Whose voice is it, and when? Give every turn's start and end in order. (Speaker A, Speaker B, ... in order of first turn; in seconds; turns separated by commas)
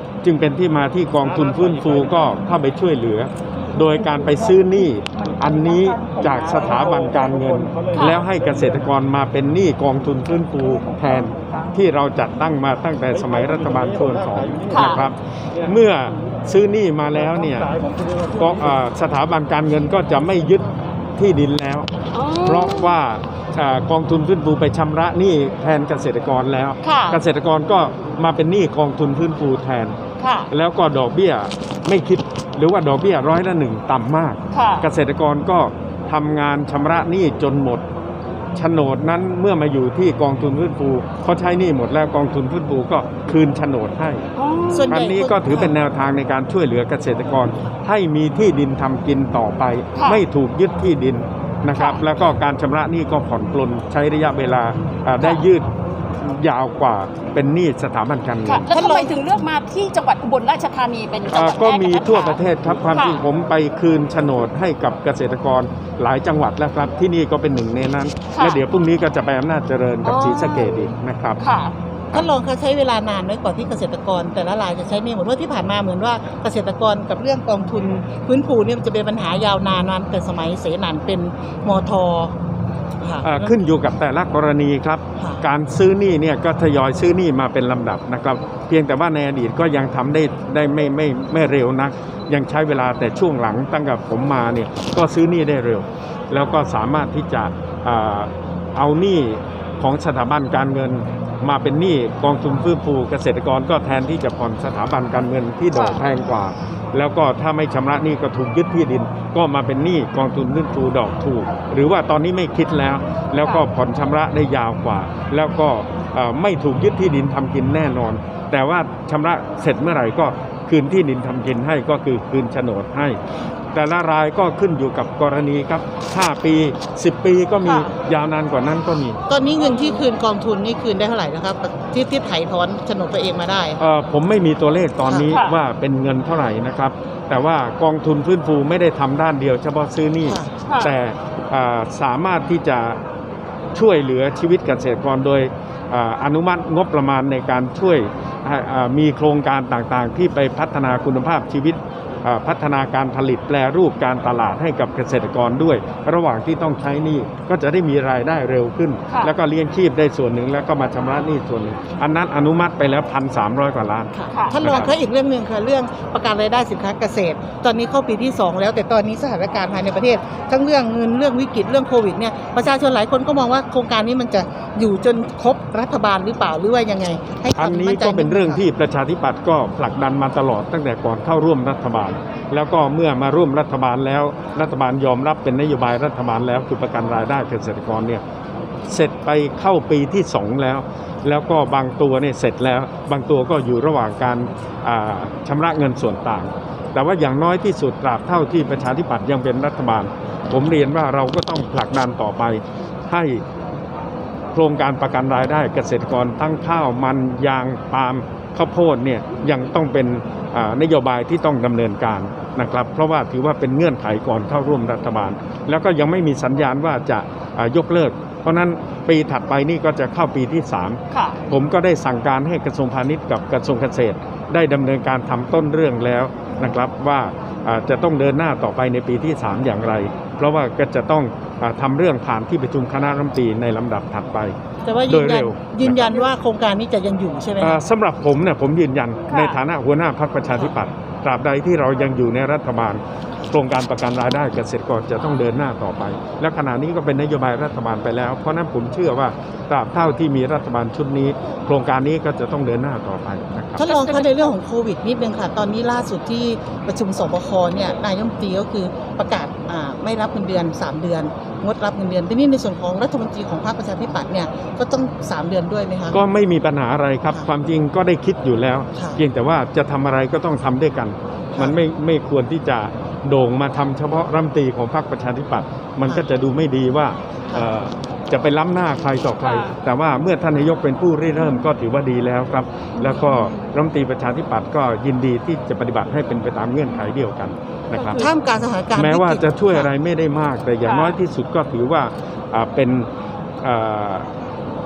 Speaker A: 0.2-17.7, Speaker B: 7.9-8.2, Speaker B: 14.7-15.0, Speaker A: 18.3-21.9, Speaker B: 22.1-23.0, Speaker A: 22.4-29.9, Speaker B: 26.8-27.2, Speaker B: 30.2-30.5, Speaker A: 30.5-37.8, Speaker B: 34.5-34.9, Speaker A: 38.5-44.2, Speaker B: 44.4-44.9, Speaker C: 44.7-45.8, Speaker A: 44.9-58.7, Speaker B: 50.0-50.2, Speaker B: 51.7-52.0, Speaker B: 55.2-55.4, Speaker B: 58.5-62.4, Speaker C: 58.7-59.1, Speaker A: 61.3-71.4, Speaker B: 62.9-63.2, Speaker B: 68.3-68.6, Speaker B: 70.0-70.7, Speaker B: 71.4-71.8, Speaker C: 72.1-82.3, Speaker C: 83.0-83.5, Speaker A: 83.2-123.2, Speaker C: 85.2-85.4, Speaker B: 105.7-106.0, Speaker A: 123.7-129.2, Speaker B: 127.6-127.9, Speaker C: 129.3-133.8, Speaker A: 133.8-143.0, Speaker C: 135.0-135.3, Speaker B: 135.3-135.6, Speaker C: 140.2-140.5, Speaker B: 140.7-140.9, Speaker A: 143.7-164.9, Speaker C: 164.1-178.6, Speaker B: 164.3-164.6, Speaker A: 177.6-188.2, Speaker A: 188.9-203.4, Speaker A: 204.5-234.6, Speaker B: 221.1-221.4, Speaker C: 234.8-237.8, Speaker A: 235.1-236.2, Speaker A: 237.6-253.9, Speaker B: 239.3-239.6, Speaker C: 253.8-266.2, Speaker B: 253.9-254.5, Speaker A: 266.1-288.3, Speaker C: 271.5-271.8, Speaker B: 279.4-279.8, Speaker B: 287.9-288.3, Speaker C: 288.1-289.9, Speaker A: 288.9-293.1, Speaker B: 290.8-291.2, Speaker A: 293.6-294.2